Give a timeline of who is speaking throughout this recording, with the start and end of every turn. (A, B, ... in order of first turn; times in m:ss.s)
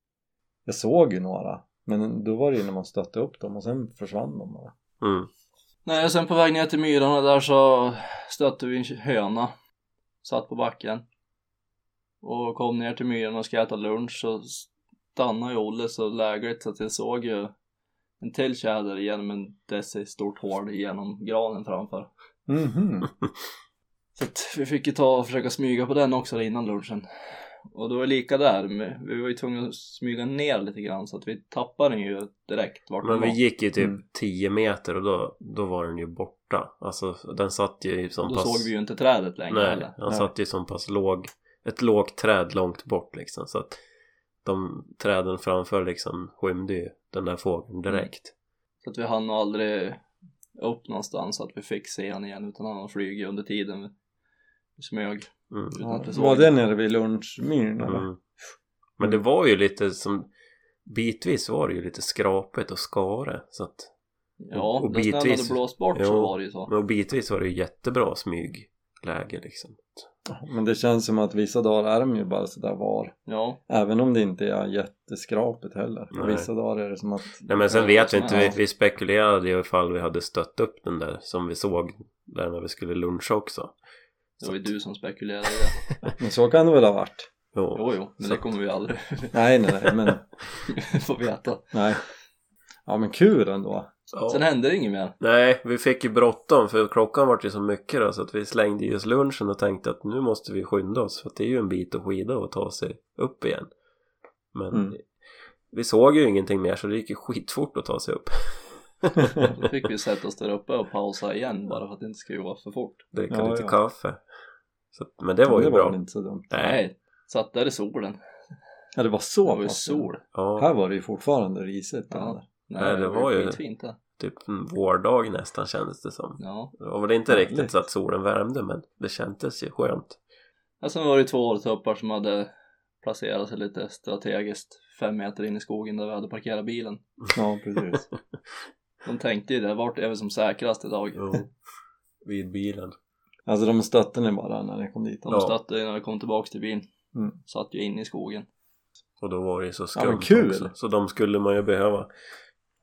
0:00.7-0:04.7 A
0:05.0-0:05.3 B
0:05.9-0:09.5 C
0:10.2-0:11.0 C
0:12.2-0:17.5 C
0:18.2-0:22.1 C
0:22.5-0:23.1 A
0:24.2-0:27.1 C
0:27.7-0:33.4 C
0:33.0-0:38.7 B
0:38.2-0:40.0 C
0:39.5-0:43.8 B
0:44.4-0:48.3 B
0:48.8-0:50.0 C
0:50.6-0:53.9 C
0:54.8-0:56.5 C
0:55.8-0:58.1 A
0:57.8-0:58.2 B
0:59.0-1:00.3 B
1:00.9-1:03.9 B
1:04.4-1:06.7 C
1:04.5-1:10.1 B
1:10.3-1:13.2 A
1:13.3-1:13.6 C
1:13.7-1:18.5 A
1:16.1-1:16.5 B
1:17.5-1:23.8 B
1:17.7-1:18.6 C
1:24.4-1:25.8 C
1:24.4-1:24.7 B
1:26.2-1:27.3 A
1:27.5-1:28.4 B
1:27.8-1:29.4 C
1:29.3-1:30.2 A
1:30.7-1:31.7 C
1:31.7-1:32.0 A
1:32.9-1:33.9 A
1:34.1-1:34.4 B
1:34.3-1:35.2 C
1:35.2-1:43.7 B
1:44.5-1:45.0 B
1:44.7-1:45.0 A
1:45.7-1:49.5 B
1:49.4-1:53.0 C
1:53.1-1:54.2 B
1:53.3-1:53.8 A
1:54.9-1:56.0 B
1:55.4-1:56.5 A
1:56.5-1:56.8 B
1:56.5-1:58.2 C
1:59.0-2:02.4 A
1:59.5-2:00.2 C
2:00.3-2:00.7 B
2:02.1-2:04.0 C
2:02.8-2:03.6 B
2:04.2-2:10.2 B
2:06.4-2:06.7 C
2:07.3-2:07.7 A
2:10.8-2:12.5 C
2:13.0-2:17.0 C
2:17.3-2:18.1 A
2:19.0-2:21.3 C
2:21.2-2:21.5 B
2:22.2-2:23.0 B
2:23.5-2:25.4 A
2:25.3-2:26.9 C
2:25.3-2:25.5 B
2:27.5-2:28.5 C
2:29.2-2:32.1 B
2:30.0-2:30.7 A